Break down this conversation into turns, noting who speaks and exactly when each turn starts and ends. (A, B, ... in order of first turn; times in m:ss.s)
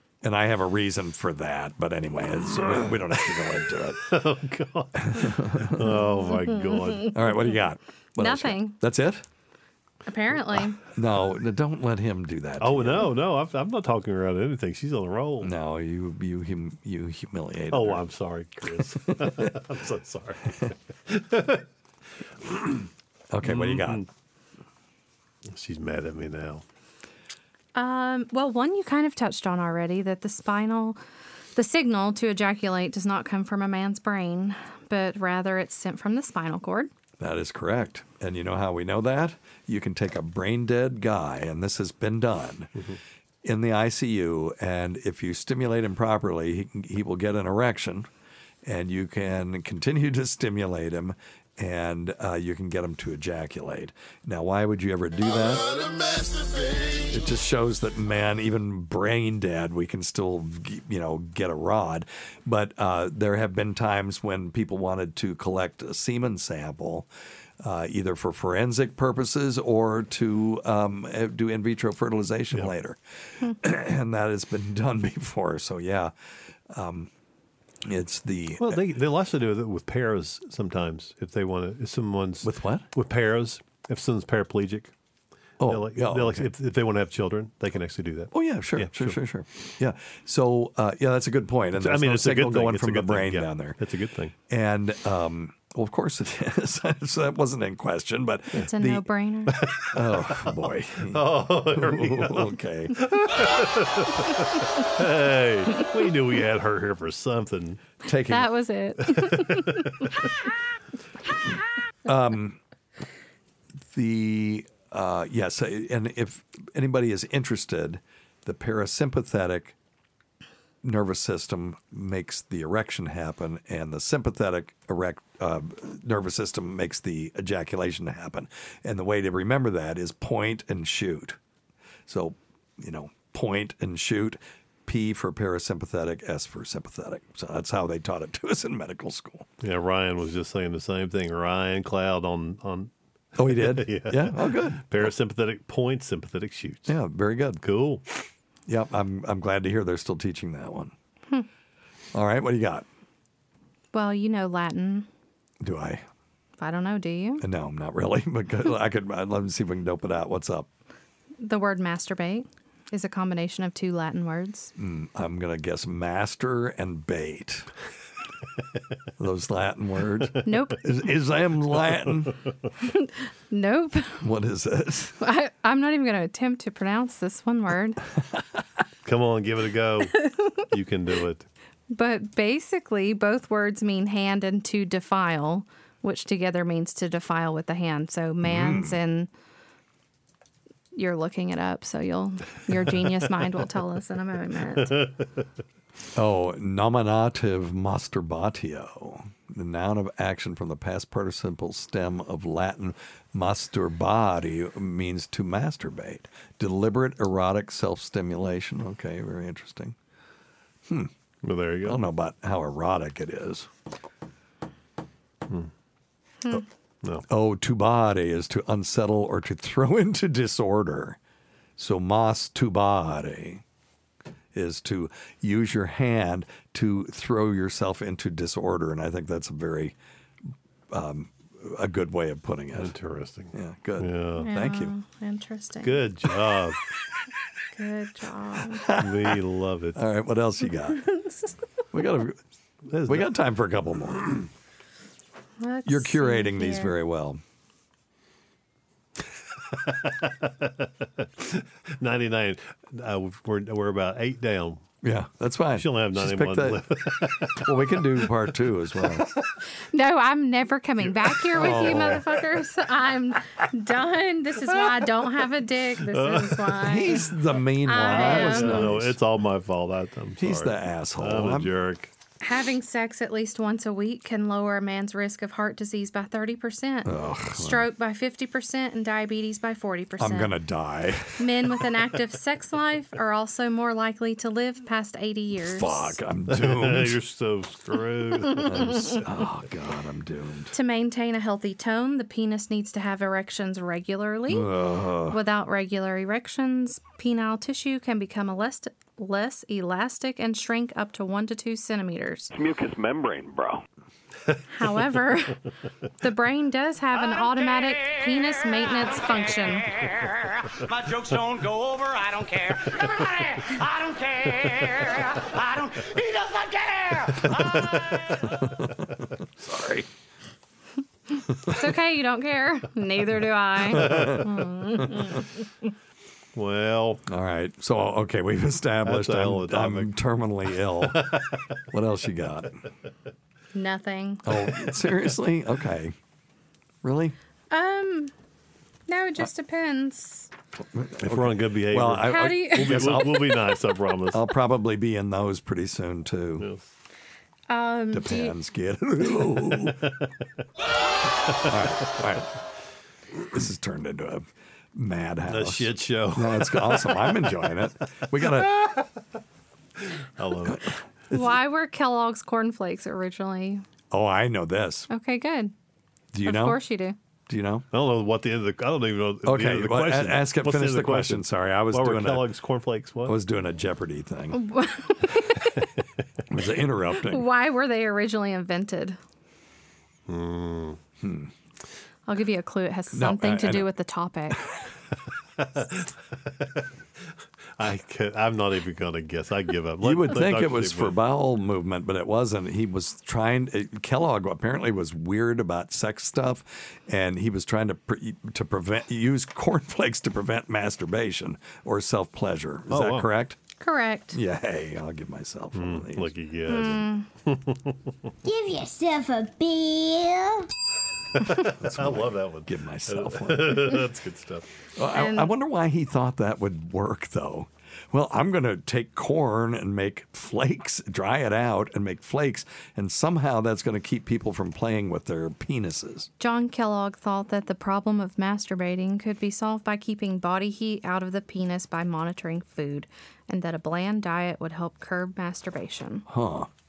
0:00.2-0:04.1 A
0:02.8-0:07.2 B
0:05.1-0:05.8 A
0:06.1-0:07.1 C
0:07.1-0:09.2 A
0:08.2-0:08.8 C
0:10.1-0:10.8 C
0:11.0-0:13.1 A
0:12.6-0:15.5 B
0:15.4-0:18.0 A
0:17.7-0:21.6 B
0:22.4-0:22.9 B
0:23.3-0:24.0 A
0:23.4-0:24.1 B
0:25.5-0:26.6 B
0:27.8-0:31.0 C
0:31.6-0:36.9 C
0:37.2-0:42.7 A
0:43.4-0:48.1 A
0:48.6-0:56.0 A
0:57.0-1:07.1 A
1:07.6-1:13.0 A
1:13.6-1:16.1 A
1:16.7-1:17.1 A
1:17.8-1:18.8 A
1:18.6-1:24.9 B
1:22.4-1:22.9 A
1:25.6-1:26.5 A
1:25.6-1:29.2 B
1:28.3-1:33.8 A
1:31.8-1:34.3 B
1:34.5-1:39.1 A
1:38.6-1:39.6 C
1:39.5-1:47.8 B
1:39.9-1:43.0 A
1:48.0-1:48.5 A
1:48.3-1:50.1 C
1:49.1-1:50.1 B
1:52.1-1:52.6 A
1:53.9-1:59.8 A
2:00.8-2:11.4 A
2:12.1-2:19.5 A
2:19.6-2:27.0 B
2:23.4-2:25.1 A
2:26.9-2:27.6 A
2:27.6-2:28.0 B
2:28.7-2:30.9 A
2:32.1-2:32.9 A
2:33.9-2:35.1 C
2:35.6-2:36.0 A
2:36.6-2:37.4 C
2:37.4-2:40.7 A
2:41.4-2:44.7 C
2:44.8-2:47.7 A
2:49.2-2:52.3 A
2:50.4-2:50.8 C
2:52.8-2:54.3 C
2:54.2-2:55.2 A
2:55.2-2:58.0 C
2:59.0-3:00.1 B
3:00.7-3:01.5 B
3:01.9-3:09.3 C
3:08.4-3:09.0 A
3:11.0-3:15.0 C
3:14.8-3:15.1 B
3:16.2-3:30.0 A
3:31.4-3:32.0 B
3:31.8-3:33.7 A
3:37.3-3:41.2 A
3:41.8-3:43.6 A
3:44.5-3:50.0 A
3:50.9-3:52.9 A
3:52.7-3:54.5 B
3:53.5-3:54.9 A
3:54.4-3:56.1 C
3:55.8-3:56.8 B
3:57.8-3:58.9 C
3:58.9-4:00.0 B
4:00.0-4:01.0 A
4:01.1-4:01.5 C
4:01.9-4:02.4 A
4:02.9-4:03.3 B
4:03.1-4:04.4 A
4:05.6-4:07.0 C
4:05.9-4:07.4 A
4:09.9-4:14.8 B
4:15.0-4:16.8 A
4:15.8-4:18.3 B
4:17.4-4:19.3 A
4:19.9-4:27.3 C
4:21.1-4:22.4 B
4:21.6-4:22.2 A
4:24.8-4:25.5 B
4:26.0-4:26.9 B
4:26.8-4:29.2 A
4:27.8-4:29.0 C
4:28.0-4:32.1 B
4:30.4-4:31.7 A
4:32.4-4:40.6 C
4:37.0-4:37.9 A
4:40.2-4:41.4 A
4:41.4-4:46.2 C
4:45.7-4:47.2 A
4:46.5-4:49.1 B
4:48.7-4:50.7 A
4:50.7-4:54.7 C
4:54.5-4:55.4 A
4:55.3-5:02.5 C
5:02.8-5:03.8 A
5:04.7-5:05.6 C
5:06.2-5:09.9 C
5:10.8-5:18.2 D
5:19.7-5:20.0 A
5:21.6-5:25.5 C
5:24.0-5:24.4 B
5:24.0-5:24.4 A
5:26.6-5:27.2 B
5:27.3-5:31.2 A
5:29.0-5:30.2 B
5:31.0-5:31.6 B
5:31.9-5:32.8 A
5:33.7-5:34.4 C
5:34.5-5:36.1 A
5:37.0-5:37.4 A
5:37.7-5:38.3 C
5:39.1-5:40.5 C
5:41.0-5:43.6 A
5:41.2-5:44.4 B
5:42.2-5:43.1 C
5:44.3-5:46.7 A
5:46.6-5:46.8 B
5:47.7-5:48.6 C
5:48.1-5:50.0 A
5:51.6-5:52.5 A
5:53.5-5:58.9 A
5:55.5-5:57.8 B
5:58.7-5:59.0 B
6:00.0-6:00.9 B
6:01.3-6:03.8 C
6:04.1-6:05.1 A
6:05.1-6:05.7 C
6:06.3-6:06.8 A
6:06.4-6:07.2 C
6:07.5-6:07.9 A
6:07.9-6:13.4 B
6:09.4-6:12.5 A
6:13.3-6:14.6 A
6:14.5-6:15.9 C
6:16.5-6:17.4 A
6:17.2-6:19.2 C
6:20.3-6:21.0 B
6:21.2-6:21.5 A
6:22.3-6:24.7 C
6:23.1-6:23.9 A
6:25.6-6:26.9 B
6:27.8-6:31.2 B
6:30.0-6:43.6 A
6:42.9-6:43.3 B
6:43.8-6:44.4 C
6:44.3-6:46.3 A
6:45.7-6:48.1 B
6:46.7-6:47.3 C
6:48.4-6:50.7 E
6:51.4-6:54.7 B
6:51.8-6:54.0 A
6:55.0-7:06.3 A
6:55.1-6:55.6 C
7:06.4-7:16.2 C
7:16.3-7:16.7 A